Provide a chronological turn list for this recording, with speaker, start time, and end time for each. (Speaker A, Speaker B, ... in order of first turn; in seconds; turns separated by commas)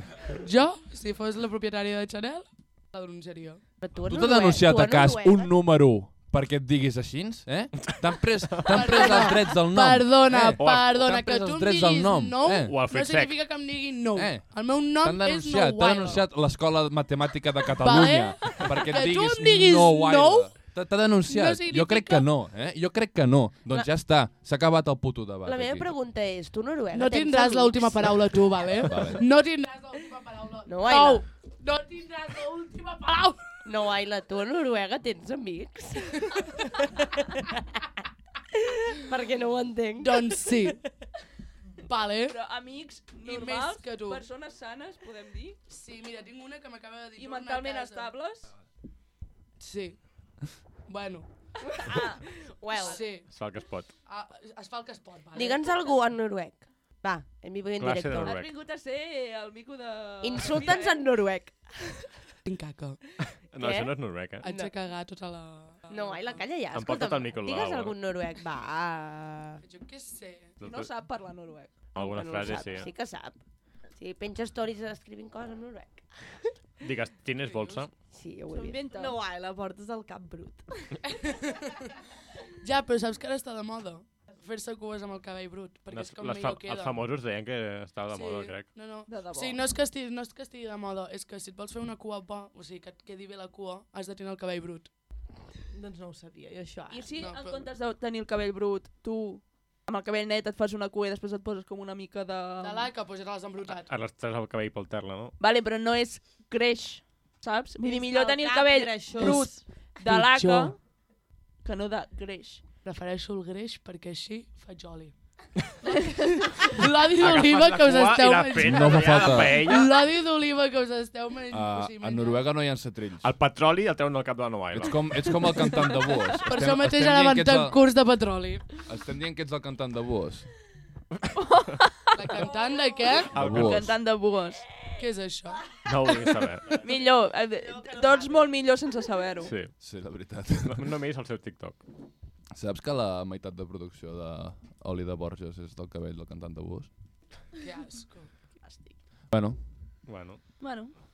Speaker A: 0.4-3.6, Speaker B: 3.8-5.5, Speaker C: 4.1-12.8, Speaker D: 8.2-9.0, Speaker A: 8.7-16.3, Speaker D: 10.6-11.1, Speaker D: 12.7-13.4, Speaker C: 14.2-25.9, Speaker A: 17.8-20.6, Speaker A: 21.2-22.3, Speaker B: 25.4-28.7, Speaker A: 26.9-33.6, Speaker C: 28.9-29.2, Speaker B: 30.7-31.2, Speaker B: 33.6-37.5, Speaker B: 38.5-40.7, Speaker A: 40.0-40.8, Speaker A: 41.9-42.4, Speaker E: 42.2-45.6, Speaker A: 43.2-44.2, Speaker A: 45.7-48.2, Speaker E: 47.2-48.5, Speaker A: 49.6-50.0, Speaker A: 50.9-51.3, Speaker E: 51.8-52.2, Speaker B: 52.5-53.0, Speaker A: 52.9-53.3, Speaker D: 53.3-53.9, Speaker A: 54.1-55.8, Speaker B: 55.4-58.4, Speaker D: 57.8-58.5, Speaker E: 58.2-61.0, Speaker B: 60.2-61.7, Speaker A: 62.5-63.0, Speaker D: 63.5-64.4, Speaker B: 63.6-64.7, Speaker A: 64.4-66.4, Speaker B: 65.9-69.6, Speaker D: 66.7-68.0, Speaker A: 69.6-70.6, Speaker E: 70.6-71.9, Speaker D: 70.6-70.9, Speaker D: 72.0-72.9, Speaker B: 72.0-73.4, Speaker B: 74.0-76.0, Speaker D: 76.8-77.9, Speaker A: 77.4-77.9, Speaker B: 78.1-78.8, Speaker E: 78.5-79.2, Speaker F: 78.9-80.7, Speaker A: 81.1-81.8, Speaker A: 82.6-87.0, Speaker D: 85.9-88.7, Speaker E: 88.1-88.4, Speaker A: 88.2-94.9, Speaker E: 89.1-89.7, Speaker F: 95.7-97.1, Speaker E: 96.9-102.9, Speaker A: 97.2-97.6, Speaker A: 102.6-103.9, Speaker D: 103.9-105.3, Speaker E: 105.4-110.8, Speaker F: 107.8-109.6, Speaker A: 109.2-109.5, Speaker A: 110.0-110.7, Speaker E: 111.6-112.6, Speaker A: 112.8-115.1, Speaker A: 115.8-122.5, Speaker E: 115.9-116.7, Speaker D: 117.2-120.0, Speaker C: 118.6-119.7, Speaker C: 121.5-123.3, Speaker D: 123.2-125.3, Speaker C: 124.7-127.8, Speaker E: 125.8-126.2, Speaker A: 126.5-128.7, Speaker C: 128.8-130.5, Speaker E: 131.3-132.6, Speaker A: 132.2-133.4, Speaker D: 133.3-134.0, Speaker C: 133.3-133.9, Speaker E: 133.4-135.0, Speaker A: 135.0-135.6, Speaker D: 135.8-136.8, Speaker E: 136.7-139.6, Speaker F: 137.6-138.5, Speaker D: 139.4-139.8, Speaker C: 139.8-140.9, Speaker D: 140.6-141.8, Speaker C: 142.5-146.9, Speaker A: 147.6-148.3, Speaker E: 148.6-149.0, Speaker C: 149.3-149.6, Speaker D: 150.1-150.4, Speaker E: 150.6-151.0